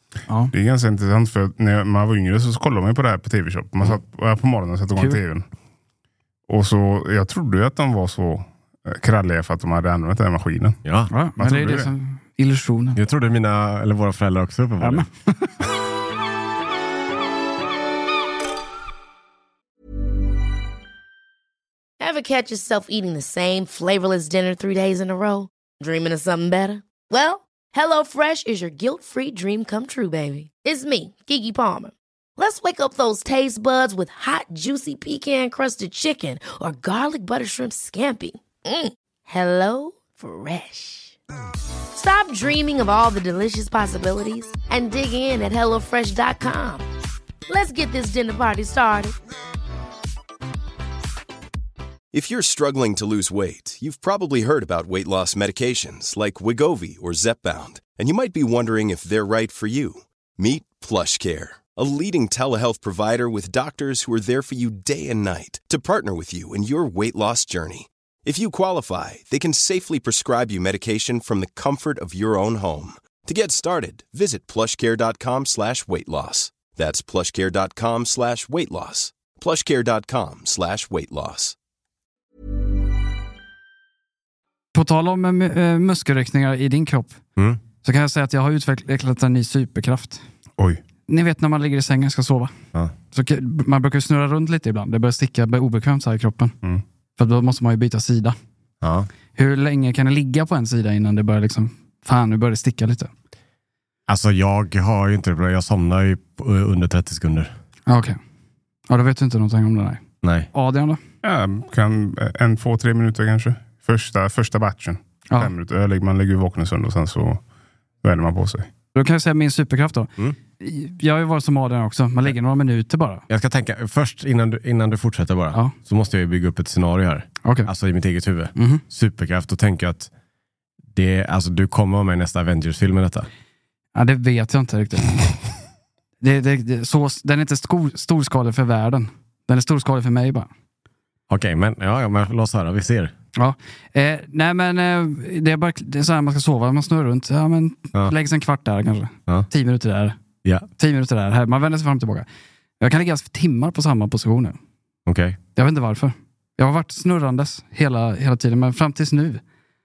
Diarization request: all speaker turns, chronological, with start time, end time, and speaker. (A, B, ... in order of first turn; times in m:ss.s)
0:00.3-0:00.5 A
0:00.5-0:05.5 B
0:06.5-0:10.8 B
0:10.8-0:11.1 C
0:11.1-0:13.0 A
0:11.4-0:11.9 B
0:13.0-0:15.1 C
0:14.8-0:15.6 A
0:22.0-0:41.2 D
0:42.0-0:46.9 D
0:47.5-0:49.2 D
0:52.1-1:21.6 E
1:24.7-1:27.2 A
1:27.4-1:27.6 C
1:27.8-1:30.2 A
1:31.1-1:32.5 A
1:33.1-1:36.5 A
1:37.2-1:38.4 A
1:38.8-1:39.1 C
1:39.4-1:43.1 A
1:44.1-1:47.5 C
1:47.9-1:48.2 A
1:48.9-1:50.0 A
1:50.2-1:50.5 C
1:50.5-1:51.0 A
1:51.2-1:57.4 B
1:58.0-1:58.7 B
1:58.9-2:03.2 A
2:03.3-2:10.1 C
2:07.4-2:07.7 A
2:08.6-2:08.8 A
2:10.9-2:13.3 C
2:14.0-2:15.3 A
2:16.2-2:20.5 A
2:21.3-2:23.1 C
2:23.4-2:30.2 A
2:30.8-2:32.2 A
2:32.8-2:34.6 A
2:35.1-2:35.4 C
2:35.6-2:39.4 A